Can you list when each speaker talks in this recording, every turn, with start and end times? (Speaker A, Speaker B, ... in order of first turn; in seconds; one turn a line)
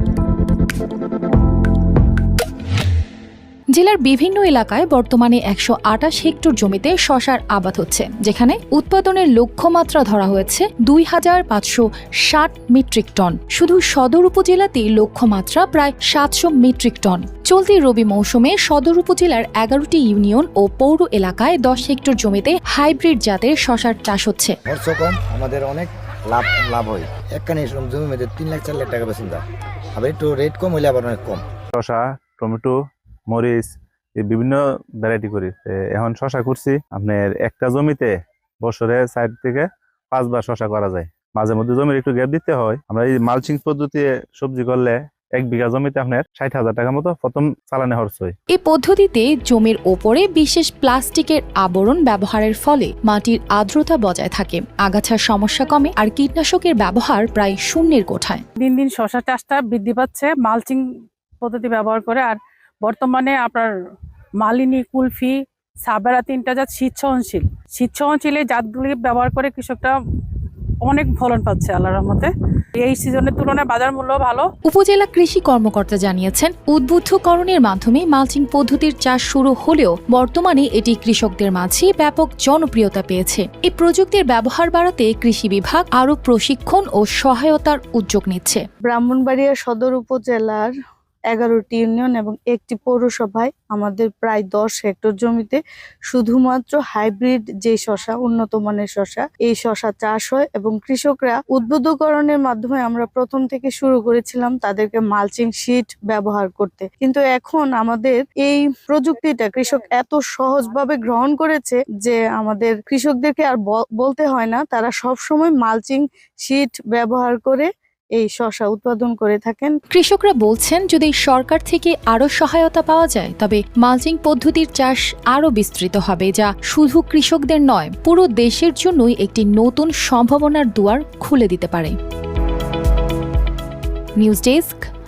Speaker A: 3.7-24.6
Speaker B: 24.6-31.4
Speaker C: 31.7-32.7
Speaker C: 33.3-48.3
Speaker A: 48.5-58.4
Speaker D: 58.6-60.8
Speaker D: 61.4-63.7
Speaker D: 64.4-65.3
Speaker D: 65.8-74.5
Speaker A: 74.6-88.6
Speaker E: 88.8-90.7
Speaker E: 91.3-119.8
Speaker A: 119.9-131.9
Speaker A: 134.2-134.9